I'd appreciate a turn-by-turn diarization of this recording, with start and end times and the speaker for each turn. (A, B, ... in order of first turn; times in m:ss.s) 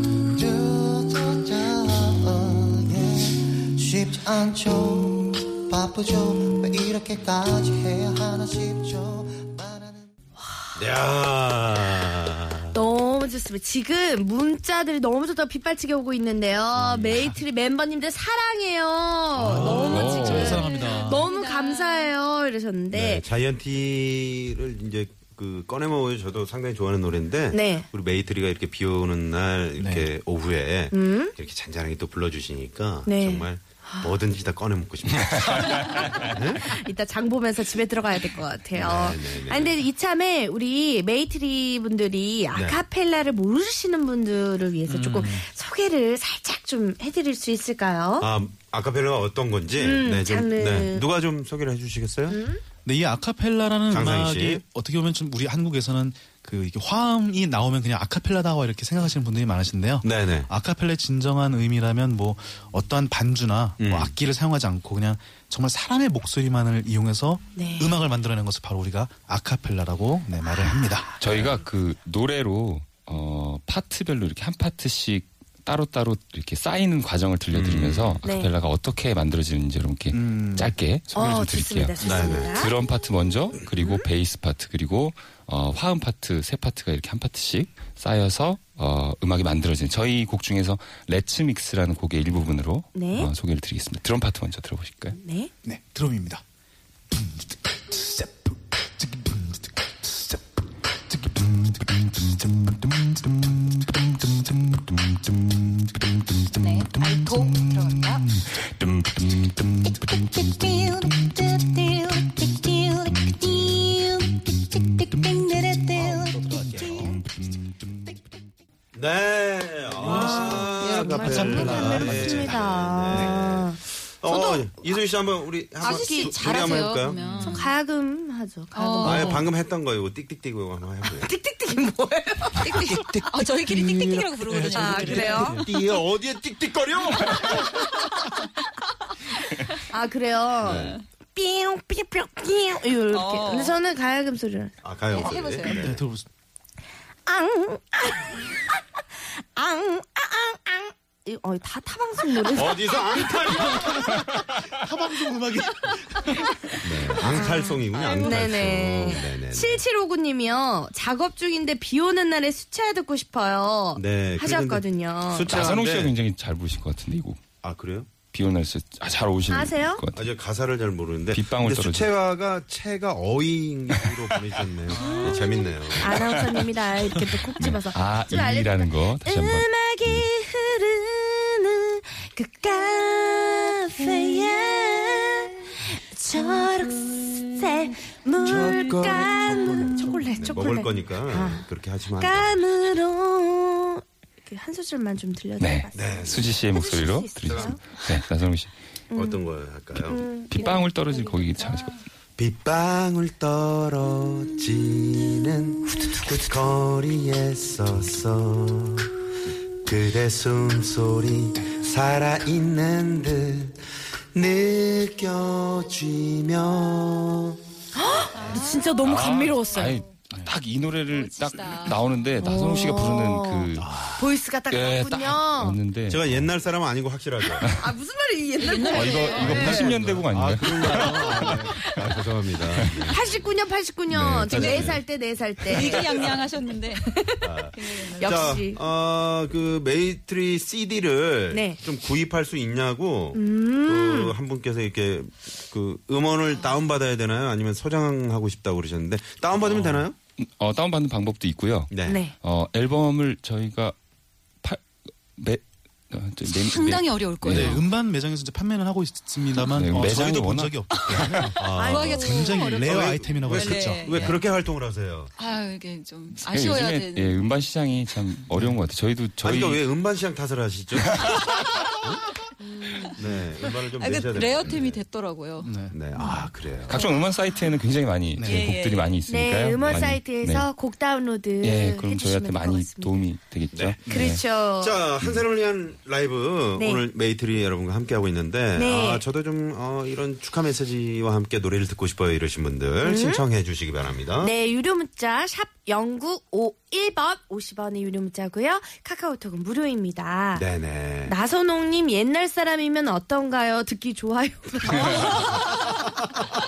0:00.3-0:10.1 A
0:10.4-0:10.8 B
0:10.8-0:12.8 C
0:12.7-0:23.2 B
0:16.7-0:17.4 C
0:19.4-0:21.2 D
0:19.6-0:22.1 E
0:19.9-0:20.7 F
0:22.9-0:36.8 C
0:27.5-0:27.9 B
0:29.8-0:30.1 D
0:30.9-0:31.3 B
0:33.1-0:34.1 B
0:36.2-0:48.3 B
0:38.8-0:39.8 C
0:42.5-0:42.8 C
0:44.9-0:45.5 D
0:48.2-0:52.4 C
0:49.8-0:51.0 B
0:52.3-0:52.6 B
0:52.8-1:11.2 D
0:53.9-0:54.6 C
1:00.0-1:00.5 C
1:03.8-1:04.2 C
1:07.6-1:07.9 B
1:11.2-1:35.2 F
1:17.5-1:18.2 C
1:18.2-1:18.5 B
1:20.1-1:21.2 D
1:21.1-1:22.7 B
1:22.0-1:22.6 C
1:23.8-1:24.1 B
1:33.0-1:33.3 B
1:35.2-1:35.5 B
1:35.6-1:36.4 D
1:37.2-1:40.4 D
1:41.1-1:41.7 D
1:46.5-1:48.4 E
1:48.8-1:49.6 F
1:49.9-1:57.2 E
1:56.0-1:57.2 D
1:58.9-2:07.5 C
2:00.0-2:02.6 D
2:00.4-2:04.9 B
2:03.1-2:03.4 D
2:05.8-2:06.9 B
2:05.8-2:07.7 E
2:07.4-2:09.4 B
2:08.7-2:09.4 E
2:09.0-2:11.3 C
2:11.0-2:13.0 B
2:12.6-2:15.6 E
2:13.9-2:15.8 D
2:14.7-2:15.6 B
2:15.1-2:17.7 C
2:19.9-2:24.7 B
2:20.6-2:21.0 C
2:23.1-2:23.8 E
2:24.8-2:26.0 C
2:25.1-2:25.9 E
2:25.6-2:26.2 D
2:27.3-2:33.6 B
2:32.5-2:34.2 C
2:33.4-2:36.6 D
2:36.8-2:39.8 C
2:37.2-2:45.6 B
2:44.0-2:46.1 C
2:45.5-2:47.4 F
2:47.6-2:48.1 C
2:48.3-2:50.3 F
2:49.5-2:50.0 B
2:50.1-2:56.4 C
2:51.3-2:52.1 F
2:55.0-3:11.7 B
2:57.6-3:00.3 F
3:08.4-3:12.6 C
3:12.2-3:17.8 B
3:15.6-3:18.7 F
3:15.9-3:17.8 C
3:19.1-3:19.4 B
3:19.1-3:20.2 C
3:20.0-3:21.3 B
3:20.5-3:21.9 F
3:22.4-3:29.1 C
3:29.8-3:33.8 C
3:34.3-3:37.6 C
3:37.9-3:40.0 B
3:38.3-3:39.0 E
3:39.0-3:43.9 F
3:41.1-3:42.3 E
3:42.4-3:45.8 B
3:43.8-3:44.3 C
3:44.7-3:46.5 F
3:46.1-3:47.7 C
3:47.6-3:49.9 B
3:48.6-3:49.7 E
3:48.9-3:51.7 F
3:49.2-3:53.4 C
3:51.0-3:51.9 B
3:52.7-3:53.1 F
3:53.1-3:56.3 B
3:54.1-3:54.9 F
3:54.5-3:55.0 E
3:54.5-3:55.0 C
3:55.6-3:58.6 E
3:57.1-3:57.5 B
3:57.4-4:10.2 C
3:58.2-3:58.8 B
4:01.5-4:01.8 B
4:03.4-4:04.4 B
4:09.7-4:14.0 F
4:11.9-4:12.2 C
4:12.1-4:12.3 B
4:15.4-4:17.8 F
4:16.5-4:17.8 E
4:17.5-4:24.4 D
4:17.5-4:17.8 C
4:19.6-4:21.5 F
4:20.9-4:24.4 E
4:21.6-4:25.3 C
4:21.8-4:22.5 B
4:25.4-4:27.4 E
4:26.4-4:29.8 F
4:28.5-4:28.8 D
4:29.4-4:31.4 C
4:31.2-4:31.5 F
4:32.7-4:33.1 B
4:33.2-4:35.0 C
4:34.0-4:35.8 E
4:35.6-4:36.4 D
4:35.9-4:37.0 C
4:36.9-4:40.7 F
4:38.3-4:38.8 D
4:38.4-4:39.1 E
4:39.3-4:43.2 B
4:39.8-4:40.2 C
4:41.6-4:44.4 F
4:43.7-4:44.0 C
4:44.1-4:45.0 B
4:44.8-4:54.5 C
4:46.8-4:47.0 B
4:48.8-4:49.2 B
4:53.0-4:53.4 B
4:54.4-5:00.7 B
5:00.6-5:01.4 C
5:01.3-5:06.0 B